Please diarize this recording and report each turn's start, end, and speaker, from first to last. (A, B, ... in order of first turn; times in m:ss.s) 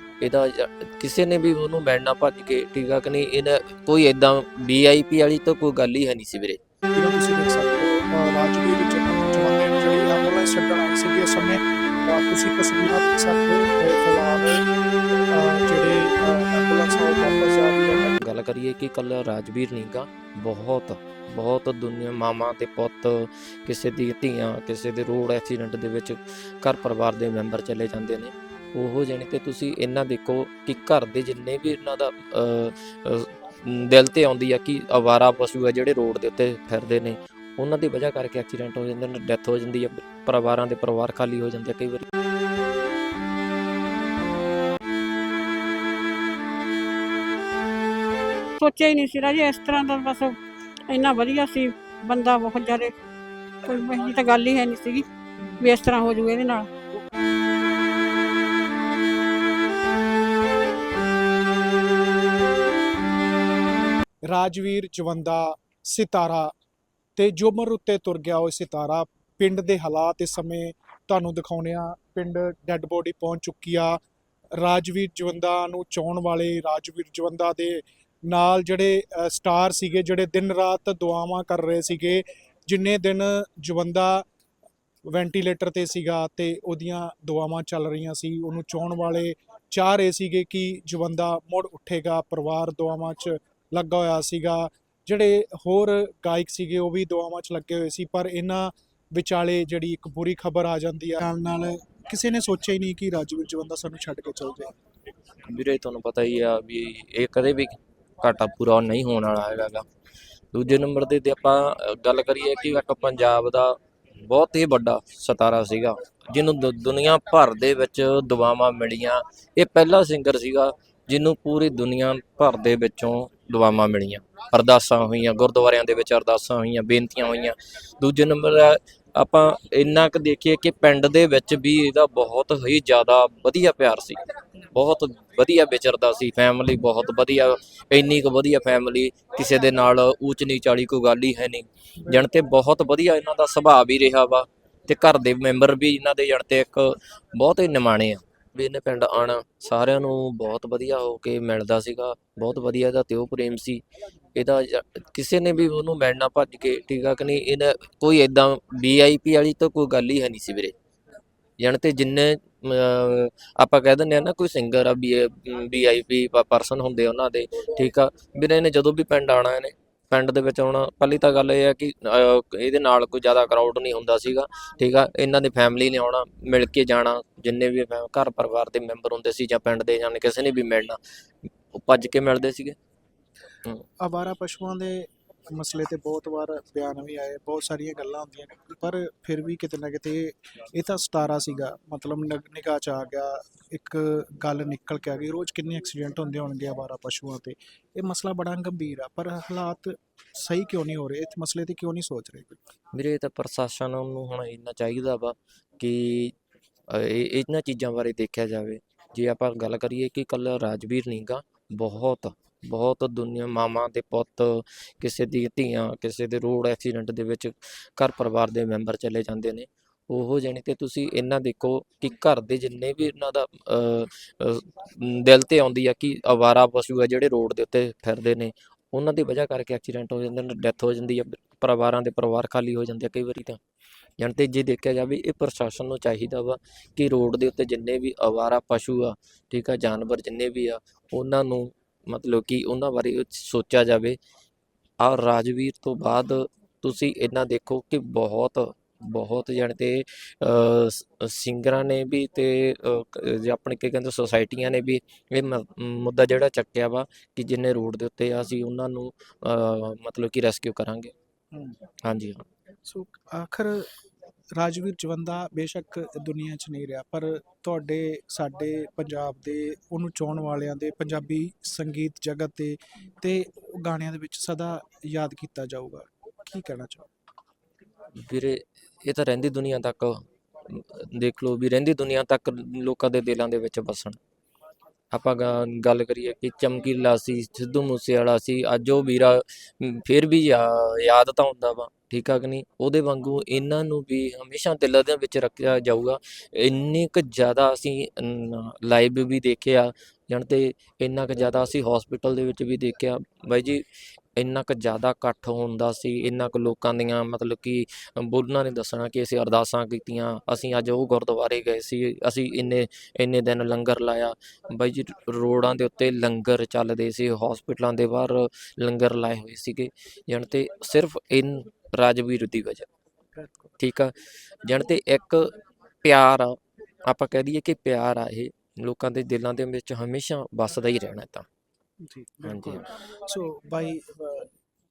0:00.2-0:06.6 A
0:06.9-0:14.6 B
0:15.3-0:18.2 B
0:18.2-0:42.1 A
0:48.6-0:53.0 C
0:53.6-0:55.0 C
0:55.6-0:56.7 C
1:04.3-1:06.5 B
1:07.2-1:14.0 B
1:14.6-1:24.2 B
1:25.1-1:44.7 B
1:45.5-1:49.8 A
1:50.5-2:33.8 A
2:34.4-2:40.7 A
2:41.6-3:01.0 A
3:01.7-3:02.8 A
3:04.0-3:22.6 B
3:22.9-3:26.3 A
3:26.9-3:53.6 A
3:54.2-4:04.2 A
4:05.0-4:21.1 A
4:21.5-4:21.8 B
4:22.0-4:22.4 A
4:22.8-4:23.9 B
4:24.6-4:37.0 B
4:38.2-4:44.2 A
4:45.1-5:03.8 A
5:04.4-5:22.9 A
5:23.4-5:23.7 B
5:23.8-5:24.1 A
5:24.6-5:31.4 A
5:32.0-5:34.5 B
5:32.4-5:32.9 A